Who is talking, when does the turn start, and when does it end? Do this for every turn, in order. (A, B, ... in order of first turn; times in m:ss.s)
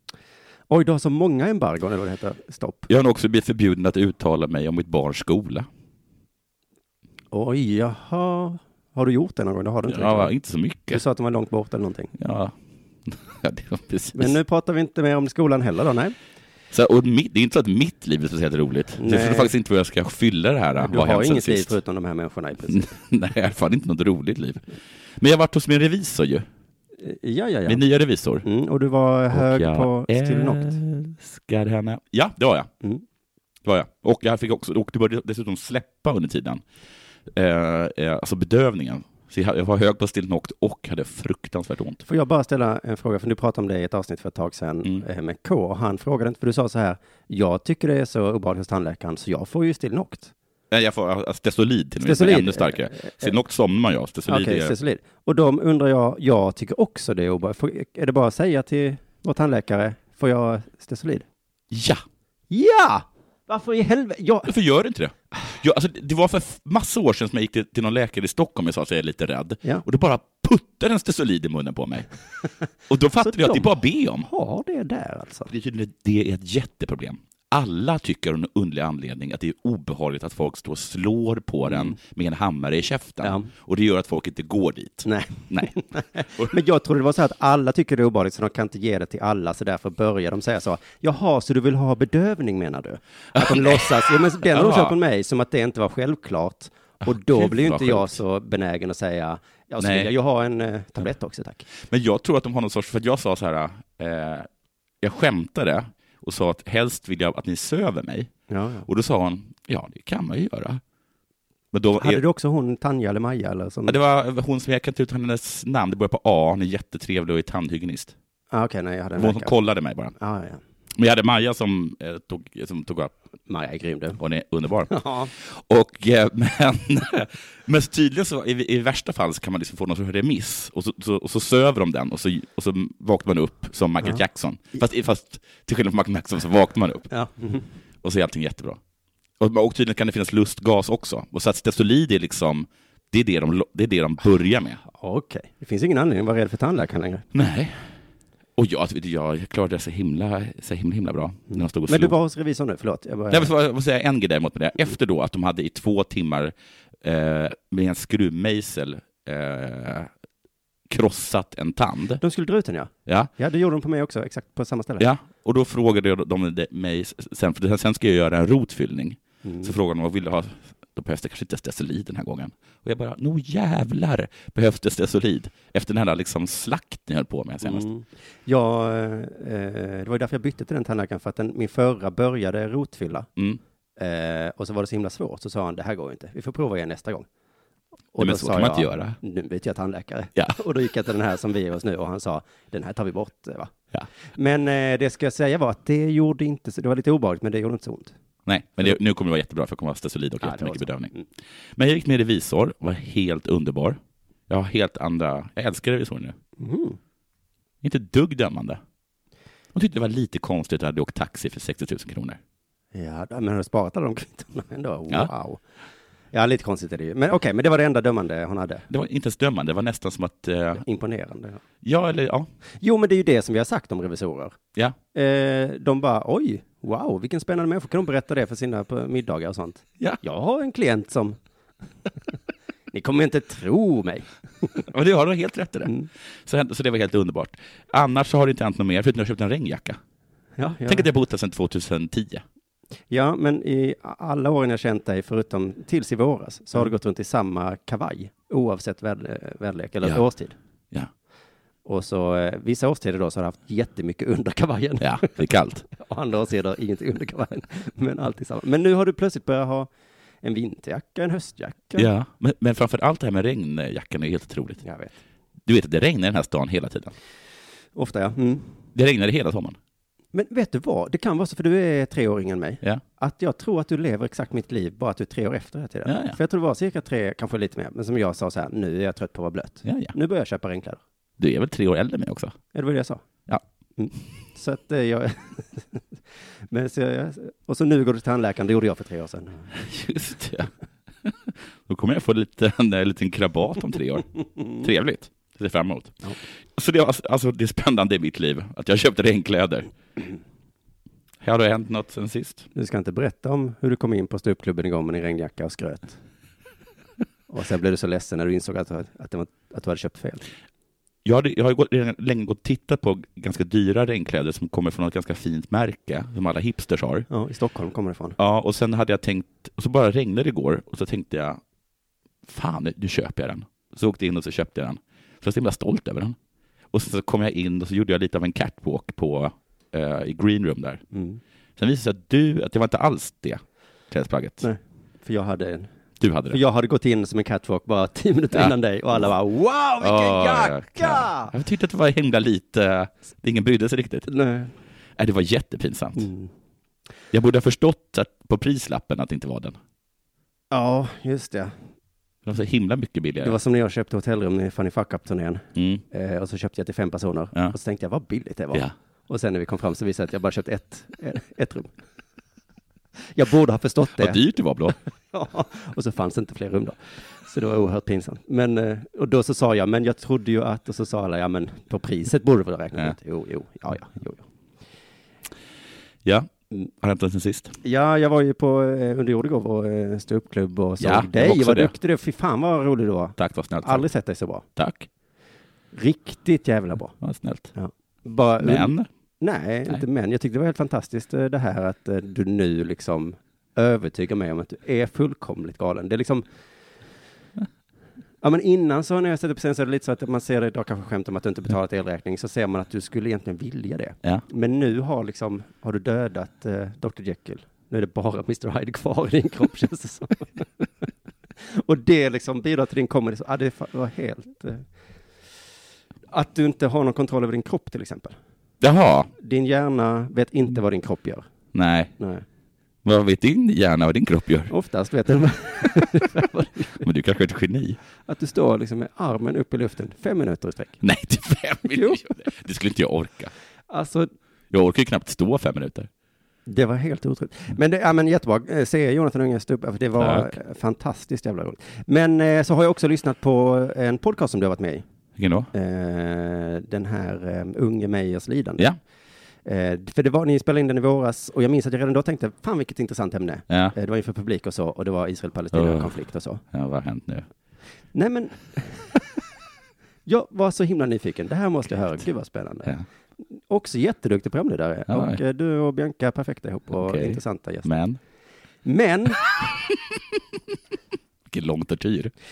0:00.7-0:02.9 A
0:02.9-0:05.7 B
0:07.3-0:10.3 A
0:09.9-0:11.0 B
0:10.9-0:12.1 A
0:12.2-0:12.5 B
0:13.0-0:14.4 B
0:14.1-0:16.1 A
0:16.7-0:21.8 B
0:19.0-0:19.5 A
0:20.8-0:22.9 A
0:22.7-0:24.6 B
0:25.2-0:26.4 B
0:27.0-0:27.8 A
0:27.7-0:28.4 B
0:28.4-0:30.8 A
0:29.3-0:32.7 B
0:33.6-0:36.6 B
0:37.3-0:42.0 B
0:42.0-0:50.3 A
0:50.7-0:54.7 B
0:52.0-0:53.4 A
0:54.3-1:01.2 A
1:01.7-1:02.0 B
1:02.5-1:04.5 A
1:04.5-1:12.1 B
1:12.9-1:14.3 B
1:13.2-1:15.5 A
1:15.5-1:25.8 B
1:23.2-1:23.5 A
1:25.0-1:41.6 A
1:33.3-1:35.0 B
1:37.0-1:38.2 B
1:39.8-1:40.1 B
1:41.8-1:44.5 B
1:45.0-1:48.3 B
1:48.5-1:48.8 A
1:48.8-1:50.8 B
1:51.7-1:52.2 B
1:52.0-1:54.0 A
1:53.9-1:58.1 B
1:58.5-1:59.5 A
1:59.2-2:00.1 B
2:00.2-2:00.6 A
2:01.0-2:03.1 B
2:03.5-2:04.2 A
2:04.2-2:17.1 B
2:04.9-2:05.3 A
2:17.1-2:17.7 A
2:18.0-2:18.8 B
2:19.4-2:24.8 B
2:24.9-2:27.2 A
2:27.3-2:27.8 B
2:28.6-2:32.1 B
2:31.5-2:33.5 A
2:33.3-2:40.1 B
2:40.9-2:42.2 B
2:42.2-2:45.1 A
2:45.0-2:57.8 B
2:49.4-2:49.7 A
2:57.6-3:03.3 A
3:04.0-3:07.3 A
3:08.1-3:13.7 A
3:08.2-3:09.2 B
3:14.3-3:18.1 A
3:18.4-3:21.1 B
3:20.4-3:21.3 A
3:21.7-3:24.0 B
3:24.5-3:26.4 B
3:26.6-3:27.0 A
3:27.8-3:28.8 B
3:29.7-3:32.4 B
3:32.9-3:35.6 A
3:36.3-3:38.8 A
3:38.9-3:40.8 B
3:40.8-3:41.6 A
3:41.8-3:42.5 B
3:42.8-3:44.6 A
3:45.1-3:51.4 A
3:52.9-3:54.8 A
3:54.9-4:00.0 B
4:00.6-4:01.1 A
4:00.8-4:02.4 B
4:03.1-4:10.5 A
4:11.8-4:19.9 A
4:15.0-4:15.8 B
4:20.4-4:22.1 A
4:22.0-4:24.8 B
4:24.8-4:25.2 A
4:25.6-4:27.1 B
4:28.0-4:28.7 A
4:28.9-4:29.8 B
4:30.3-4:41.0 A
4:36.0-4:36.4 B
4:39.8-4:40.1 B
4:41.4-4:42.5 B
4:42.7-4:43.2 A
4:44.0-4:46.0 A
4:46.7-4:49.7 A
4:49.7-4:50.7 B
4:51.2-4:56.2 B
4:56.8-4:59.9 B
5:01.4-5:02.7 B
5:02.7-5:06.2 A
5:07.5-5:10.5 A
5:11.2-5:17.2 B
5:17.3-5:18.4 A
5:18.4-5:21.6 B
5:22.4-5:26.4 B
5:26.9-5:31.0 B
5:31.1-5:31.4 A
5:31.8-5:34.6 B
5:34.6-5:35.9 A
5:36.2-5:36.6 B
5:36.5-5:41.5 A
5:38.5-5:39.3 B
5:40.0-5:44.3 B
5:44.3-5:44.7 A
5:45.2-5:46.3 B
5:46.2-5:46.5 A
5:47.3-5:49.8 B
5:50.7-5:51.7 A
5:52.4-5:53.6 B
5:53.4-6:01.9 A
5:55.7-5:56.0 B
6:03.3-6:04.4 A
6:04.2-6:05.0 B
6:05.3-6:14.4 A
6:16.2-6:16.5 B
6:17.0-6:17.8 B
6:17.8-6:24.6 A
6:21.0-6:21.9 B
6:23.4-6:24.0 B
6:24.8-6:25.1 B
6:25.9-6:27.1 A
6:27.2-6:27.7 B
6:27.7-6:36.4 A
6:28.6-6:29.1 B
6:38.4-6:51.1 A
6:51.6-6:54.8 A
6:56.3-6:58.4 A
6:58.8-6:59.3 B
6:59.4-7:01.5 A
7:01.7-7:02.1 B
7:02.2-7:02.4 A
7:03.0-7:04.7 B
7:04.7-7:07.0 A
7:07.0-7:08.0 B
7:08.2-7:11.0 A
7:11.0-7:13.5 B
7:13.9-7:14.3 A
7:14.7-7:16.1 B
7:16.7-7:25.0 A
7:20.2-7:20.5 B
7:25.4-7:25.7 B
7:25.7-7:28.8 A
7:29.6-7:36.6 A
7:33.7-7:33.9 B
7:35.7-7:36.1 B
7:36.7-7:37.5 B
7:38.1-7:39.3 A
7:40.2-7:47.9 A
7:45.1-7:45.4 B
7:47.0-7:48.2 B
7:48.8-7:49.5 A
7:51.5-7:52.3 B